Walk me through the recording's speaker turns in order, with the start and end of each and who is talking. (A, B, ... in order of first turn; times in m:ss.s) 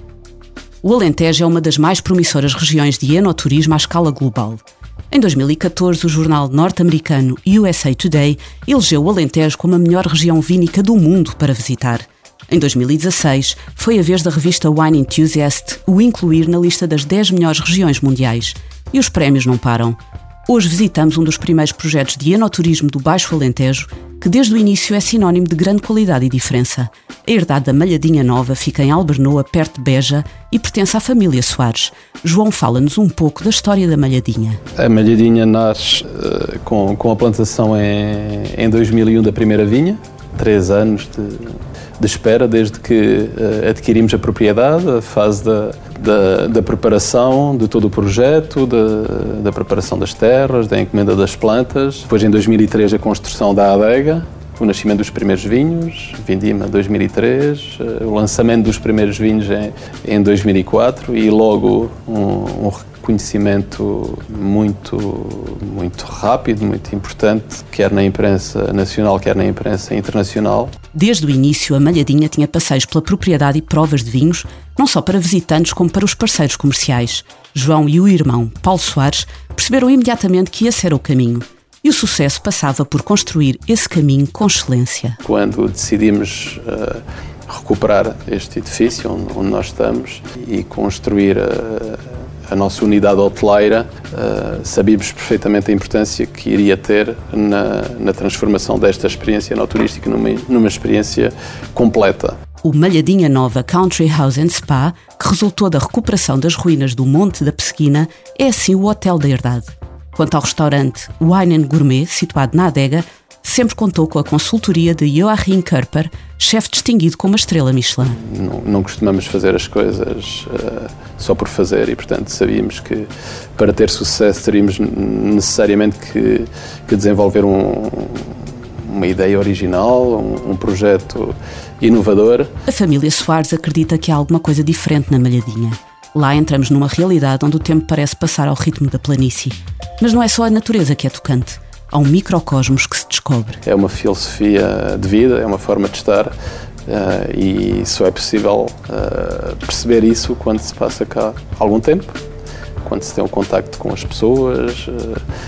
0:00.8-0:34.6 A
0:34.8-1:10.7 B
1:10.9-1:25.2 A
1:25.2-1:42.4 B
1:42.6-1:58.2 A
1:58.1-2:12.5 B
2:12.7-2:23.6 A
2:23.6-2:26.3 B
2:26.9-2:32.2 B
2:32.8-2:35.2 B